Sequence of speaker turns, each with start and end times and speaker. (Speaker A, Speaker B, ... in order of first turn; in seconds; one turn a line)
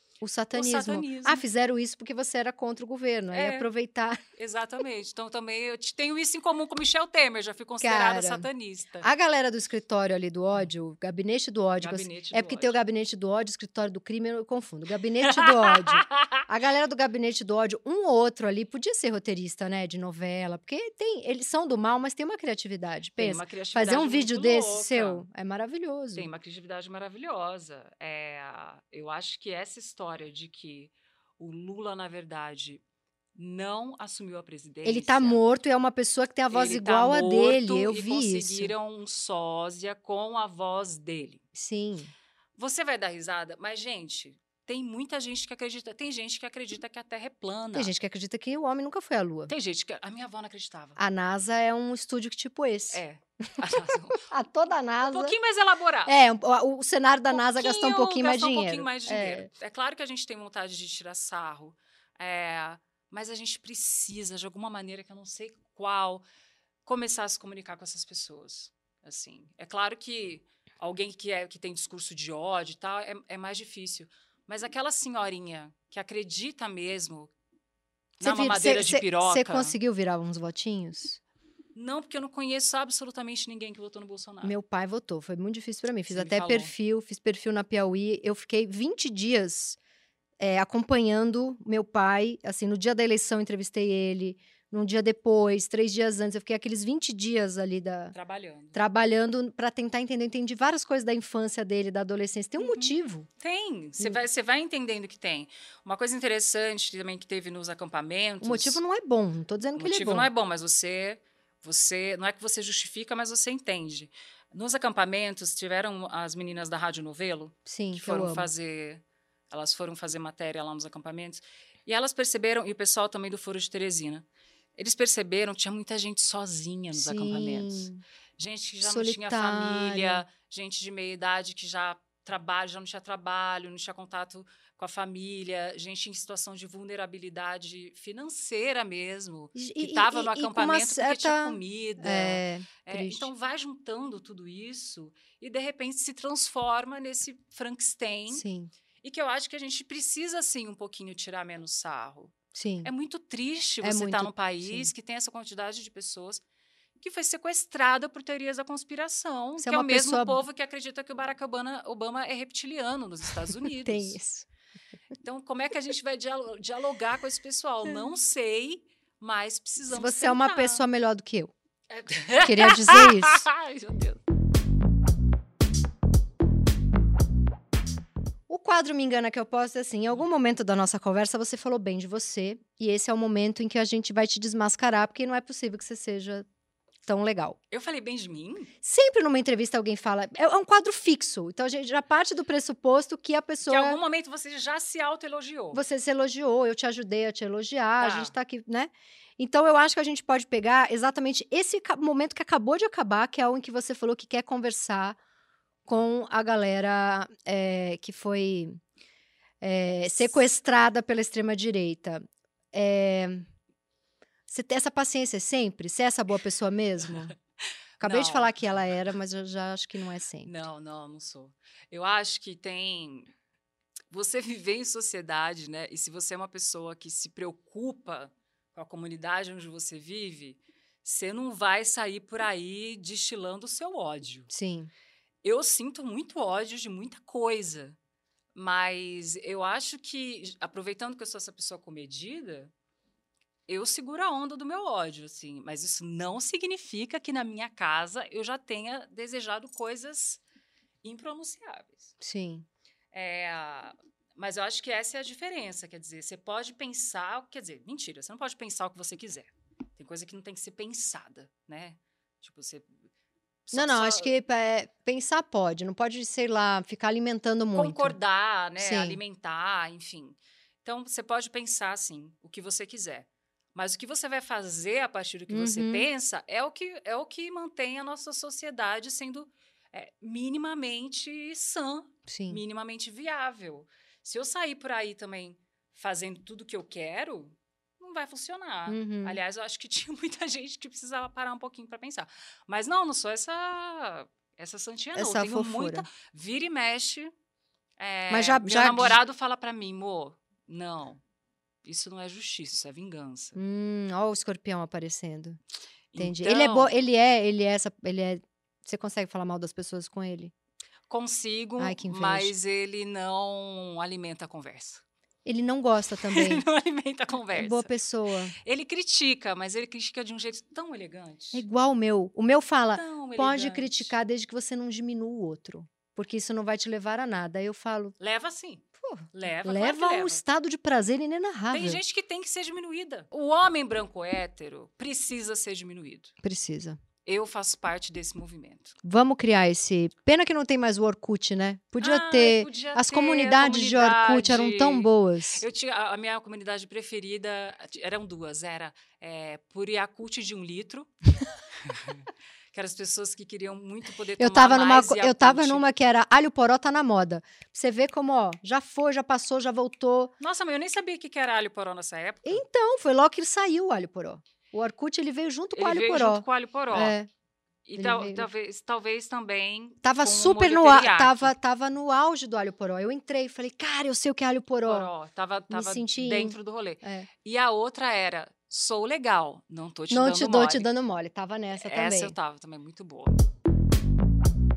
Speaker A: 0.2-4.2
Speaker B: 0.5-1.4
Speaker B: 3.3-3.7
Speaker B: 4.4-9.1
Speaker A: 7.8-8.5
Speaker A: 9.0-26.3
Speaker B: 11.8-12.8
Speaker B: 15.2-16.4
Speaker B: 23.2-25.2
Speaker B: 26.1-32.8
Speaker B: 33.4-35.4
Speaker A: 34.8-38.7
Speaker B: 36.5-41.4
Speaker A: 41.5-42.1
Speaker B: 42.6-47.9
Speaker A: 47.8-49.5
Speaker B: 49.5-51.0
Speaker A: 51.0-53.0
Speaker B: 52.9-54.2
Speaker A: 54.2-55.4
Speaker B: 55.1-56.2
Speaker A: 56.1-59.5
Speaker B: 57.3-66.2
Speaker B: 66.8-77.3
Speaker B: 78.2-79.8
Speaker A: 78.2-81.2
Speaker B: 81.8-84.5
Speaker A: 84.4-89.8
Speaker B: 86.1-86.7
Speaker A: 90.4-98.2
Speaker B: 98.1-98.8
Speaker A: 98.7-103.3
Speaker B: 102.6-108.8
Speaker A: 108.4-110.3
Speaker B: 109.8-124.2
Speaker A: 117.7-118.5
Speaker B: 124.8-148.4
Speaker A: 126.9-128.0
Speaker A: 128.8-130.2
Speaker A: 139.6-143.3
Speaker A: 148.3-148.7
Speaker B: 149.0-156.4
Speaker A: 152.5-152.9
Speaker A: 153.8-154.9
Speaker B: 157.0-164.2
Speaker A: 159.6-160.4
Speaker A: 163.7-164.5
Speaker B: 165.2-170.8
Speaker A: 169.9-171.5
Speaker B: 171.9-174.2
Speaker A: 172.4-173.4
Speaker A: 178.5-186.4
Speaker A: 187.1-187.6
Speaker B: 187.7-188.7
Speaker A: 188.8-194.0
Speaker B: 193.7-195.8
Speaker A: 195.7-205.2
Speaker B: 198.0-198.3
Speaker A: 205.9-208.8
Speaker A: 209.6-213.5
Speaker A: 214.5-217.4
Speaker B: 218.0-218.5
Speaker A: 218.0-220.5
Speaker B: 220.4-223.3
Speaker B: 224.1-234.5
Speaker A: 234.5-234.9
Speaker B: 235.4-238.0
Speaker B: 238.6-242.7
Speaker B: 243.7-250.4
Speaker B: 251.0-252.1
Speaker A: 252.2-252.7
Speaker B: 253.1-263.0
Speaker B: 263.7-264.4
Speaker A: 263.7-268.2
Speaker B: 267.7-297.3
Speaker A: 268.8-269.2
Speaker A: 275.5-276.1
Speaker A: 282.3-282.6
Speaker A: 288.9-289.4
Speaker A: 295.1-296.1
Speaker B: 298.0-301.2
Speaker A: 298.3-299.2
Speaker B: 301.8-303.6
Speaker A: 303.6-305.6
Speaker B: 306.1-307.0
Speaker A: 306.2-310.5
Speaker B: 311.1-315.0
Speaker A: 311.8-312.5
Speaker A: 315.4-316.6
Speaker B: 316.2-317.9
Speaker A: 317.5-318.6
Speaker B: 318.6-321.6
Speaker A: 321.5-328.1
Speaker B: 322.9-324.1
Speaker B: 328.2-330.4
Speaker A: 329.0-332.0
Speaker B: 331.7-336.3
Speaker A: 336.4-337.0
Speaker B: 337.2-338.9
Speaker A: 339.0-345.6
Speaker B: 342.0-351.1
Speaker B: 351.9-355.8
Speaker A: 354.4-360.3
Speaker B: 360.4-362.6
Speaker A: 362.4-367.3
Speaker B: 365.8-367.2
Speaker B: 367.9-371.5
Speaker A: 368.0-368.5
Speaker A: 370.0-375.1
Speaker B: 374.9-380.9
Speaker A: 375.7-377.3
Speaker A: 380.1-382.4
Speaker B: 381.7-383.4